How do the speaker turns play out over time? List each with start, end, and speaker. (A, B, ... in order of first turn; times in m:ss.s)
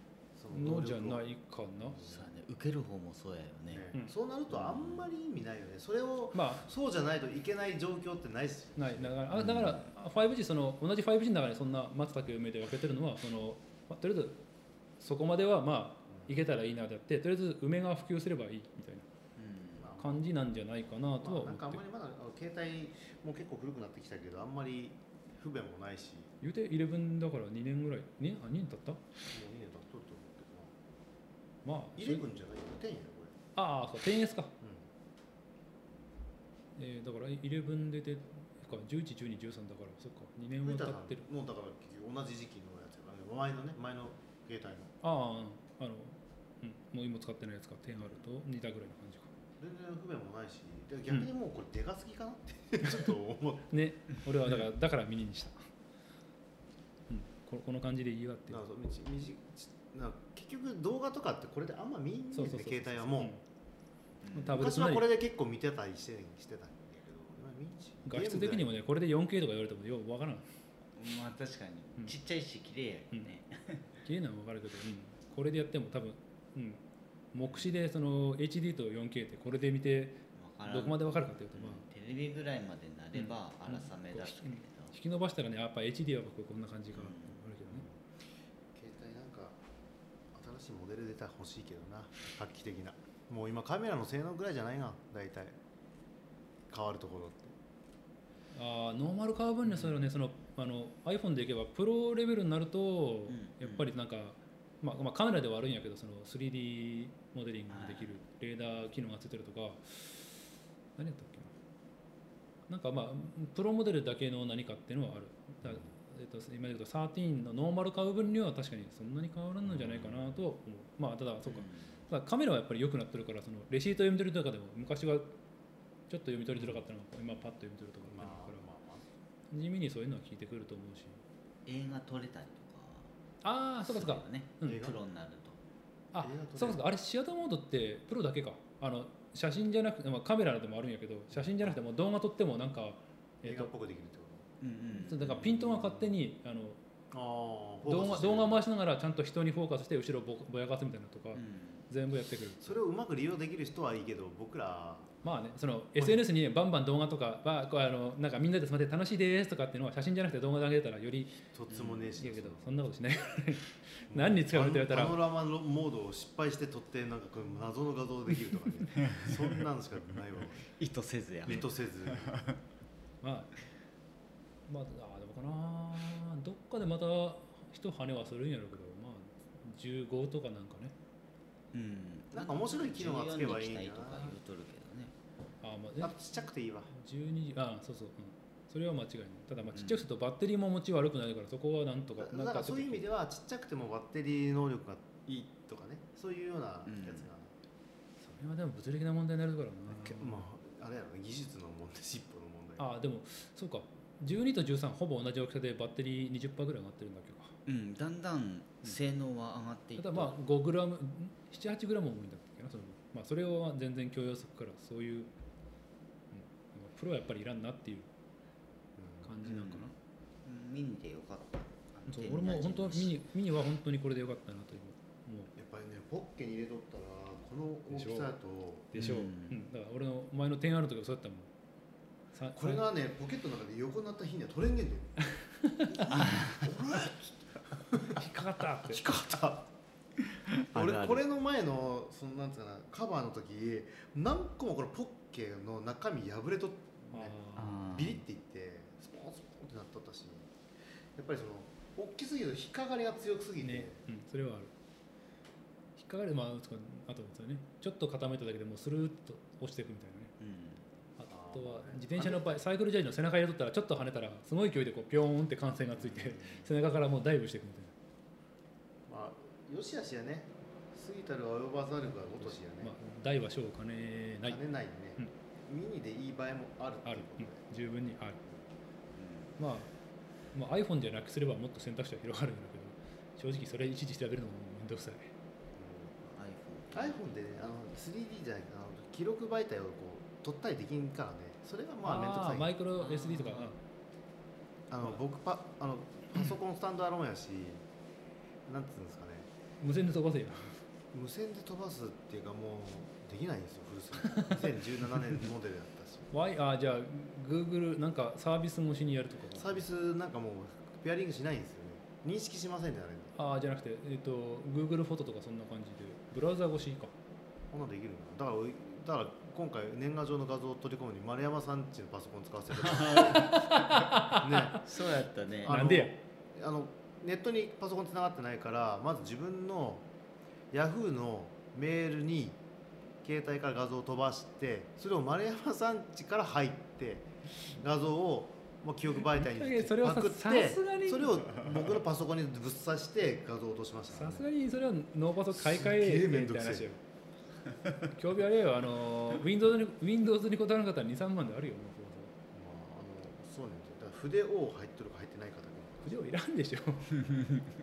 0:00.3-0:01.2 A
0:00.5-0:02.0 B
0:01.8-0:02.2 A
0:02.0-0:03.9 C
0:03.7-0:09.2 A
0:04.5-0:05.1 C
0:06.3-0:06.6 B
0:08.8-0:14.4 B
0:09.4-0:09.9 C
0:15.0-0:19.0 B
0:19.4-0:19.9 C
0:19.8-0:20.2 A
0:20.0-0:21.8 B
0:21.2-0:26.3 A
0:26.4-0:29.0 B
0:29.3-0:30.8 A
0:31.6-0:32.2 B
0:32.0-0:33.4 A
0:33.6-0:34.5 B
0:34.6-0:34.9 A
0:36.8-0:41.3 B
0:40.6-0:44.9 A
0:45.0-0:49.3 B
0:49.6-0:53.6 A
0:52.8-0:53.1 B
0:53.7-0:55.6 B
0:57.1-0:58.6 B
0:58.5-1:03.3 A
1:02.3-1:03.4 B
1:04.2-1:04.6 C
1:04.3-1:05.1 B
1:04.5-1:08.7 A
1:08.0-1:10.4 B
1:11.0-1:14.0 C
1:14.0-1:16.8 B
1:17.3-1:21.8 B
1:20.3-1:24.9 C
1:23.1-1:27.8 B
1:26.9-1:27.4 C
1:27.7-1:28.0 A
1:28.7-1:29.6 A
1:30.3-1:35.6 A
1:36.7-1:37.6 A
1:38.5-1:50.4 B
1:39.6-1:40.0 C
1:43.3-1:43.9 C
1:47.7-1:48.1 C
1:51.0-1:51.5 B
1:52.7-2:05.4 B
1:59.7-2:00.1 A
2:01.4-2:02.0 C
2:06.1-2:08.7 B
2:08.0-2:09.0 A
2:09.5-2:11.2 B
2:11.6-2:13.1 C
2:13.4-2:14.9 B
2:13.8-2:15.6 C
2:14.6-2:15.0 A
2:16.1-2:23.7 B
2:16.2-2:16.8 A
2:23.4-2:24.5 A
2:24.6-2:25.5 C
2:25.0-2:26.8 B
2:25.3-2:26.1 A
2:27.1-2:28.6 A
2:27.8-2:32.8 B
2:31.3-2:31.9 C
2:32.6-2:35.1 A
2:35.2-2:41.4 B
2:41.5-2:42.8 A
2:41.7-2:42.1 C
2:42.2-2:45.2 B
2:44.1-2:50.7 A
2:49.0-2:49.6 C
2:50.8-2:52.6 C
2:51.4-2:52.5 A
2:53.2-2:53.5 B
2:54.7-3:00.9 B
3:01.7-3:05.1 C
3:02.3-3:04.4 A
3:05.6-3:06.2 B
3:06.0-3:06.9 A
3:06.9-3:13.1 B
3:09.7-3:10.0 C
3:12.2-3:17.5 A
3:16.8-3:17.3 C
3:18.2-3:20.4 B
3:19.9-3:22.9 A
3:22.8-3:27.5 B
3:27.6-3:30.4 C
3:30.0-3:35.3 B
3:36.3-3:38.1 B
3:39.0-3:39.3 A
3:39.2-3:39.9 B
3:39.4-3:39.9 C
3:40.4-3:43.2 C
3:42.1-3:45.5 B
3:45.5-3:48.9 A
3:47.9-3:48.3 B
3:48.9-3:51.5 B
3:49.0-3:49.6 C
3:52.3-3:52.8 B
3:52.5-3:55.1 A
3:55.4-3:56.4 B
3:56.0-3:58.2 A
3:56.1-3:56.7 C
3:58.1-3:59.0 B
3:58.8-3:59.7 A
4:00.2-4:01.2 C
4:00.7-4:10.5 A
4:07.1-4:07.8 B
4:07.6-4:08.2 C
4:11.1-4:14.0 A
4:13.6-4:14.7 B
4:16.0-4:20.3 B
4:20.4-4:20.8 C
4:21.2-4:27.9 B
4:21.3-4:22.6 A
4:26.0-4:26.7 A
4:29.1-4:32.9 A
4:32.3-4:34.6 B
4:34.4-4:37.6 A
4:37.0-4:38.4 B
4:39.1-4:39.6 C
4:39.6-4:39.9 B
4:40.5-4:45.3 B
4:45.8-4:46.2 A
4:46.2-4:47.2 C
4:46.9-4:52.7 A
4:52.0-4:53.8 B
4:53.0-4:53.7 C
4:54.9-4:57.8 A
4:58.6-4:59.5 A
4:59.8-5:00.8 B
5:01.1-5:06.3 A
5:04.3-5:04.6 B
5:06.3-5:09.8 B
5:09.5-5:13.3 A
5:13.3-5:17.1 B
5:17.7-5:24.9 A
5:22.8-5:23.7 C
5:23.3-5:24.8 B
5:24.7-5:25.8 C
5:25.6-5:30.1 A
5:25.6-5:26.1 B
5:30.7-5:32.6 A
5:33.2-5:44.5 A
5:39.2-5:41.8 B
5:44.1-5:47.0 B
5:45.5-5:46.9 A
5:48.1-5:52.3 B
5:52.5-5:56.2 A
5:56.0-5:57.3 B
5:57.3-5:57.7 C